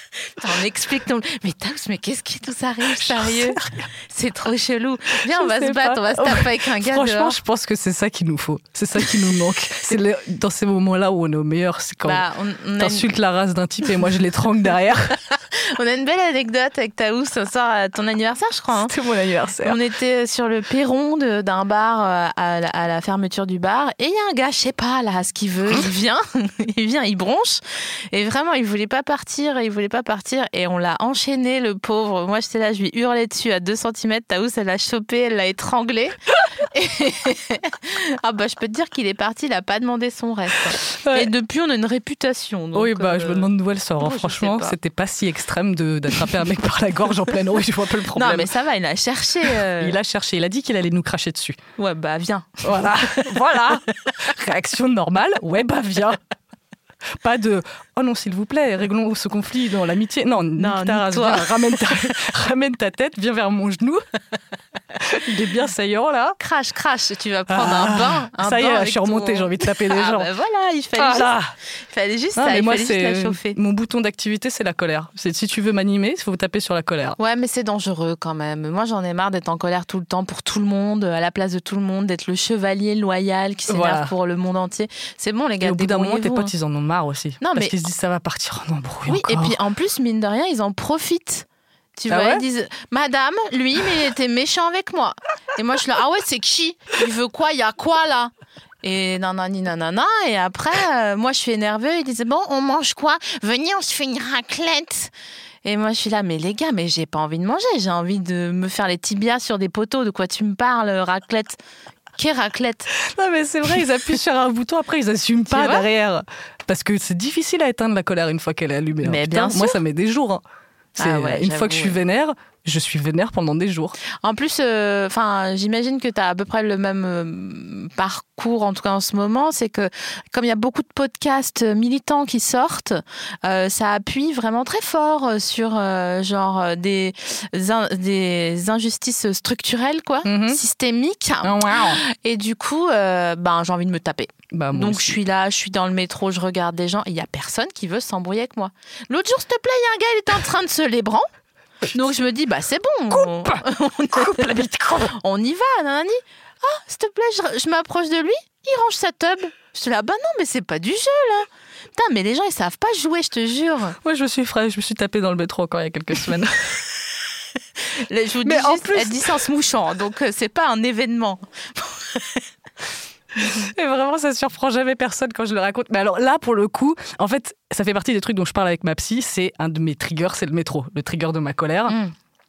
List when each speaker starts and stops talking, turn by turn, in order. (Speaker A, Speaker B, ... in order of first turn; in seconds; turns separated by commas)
Speaker A: 0.4-7.4, Speaker B: 3.0-3.9, Speaker B: 5.3-12.2, Speaker A: 12.0-13.1, Speaker B: 12.8-15.2, Speaker A: 15.3-18.9, Speaker B: 18.8-19.8, Speaker A: 19.6-44.8, Speaker B: 40.8-41.3, Speaker B: 42.8-48.5, Speaker A: 48.1-50.0, Speaker B: 49.8-51.6, Speaker A: 51.8-53.2, Speaker B: 52.6-56.2, Speaker B: 57.2-64.0, Speaker A: 60.6-61.9, Speaker B: 65.0-66.4, Speaker A: 66.4-71.3, Speaker B: 67.5-70.3, Speaker B: 71.0-71.5, Speaker A: 71.9-73.6, Speaker B: 72.4-77.2, Speaker A: 77.2-86.5, Speaker B: 83.7-84.1, Speaker B: 85.6-89.5, Speaker A: 87.4-87.7, Speaker A: 89.1-98.3, Speaker B: 92.1-92.4, Speaker A: 98.8-105.1, Speaker A: 105.7-111.6, Speaker A: 112.2-112.9, Speaker B: 113.0-120.4, Speaker A: 115.5-115.9, Speaker A: 119.0-119.8, Speaker A: 121.0-122.0, Speaker B: 121.0-124.0, Speaker A: 124.2-151.3, Speaker B: 140.2-140.6, Speaker B: 141.4-142.0, Speaker B: 144.5-145.1, Speaker A: 151.9-154.6, Speaker B: 153.1-155.1, Speaker A: 155.1-164.0, Speaker B: 164.0-166.8, Speaker A: 168.0-172.4, Speaker B: 168.4-169.3, Speaker B: 173.6-182.0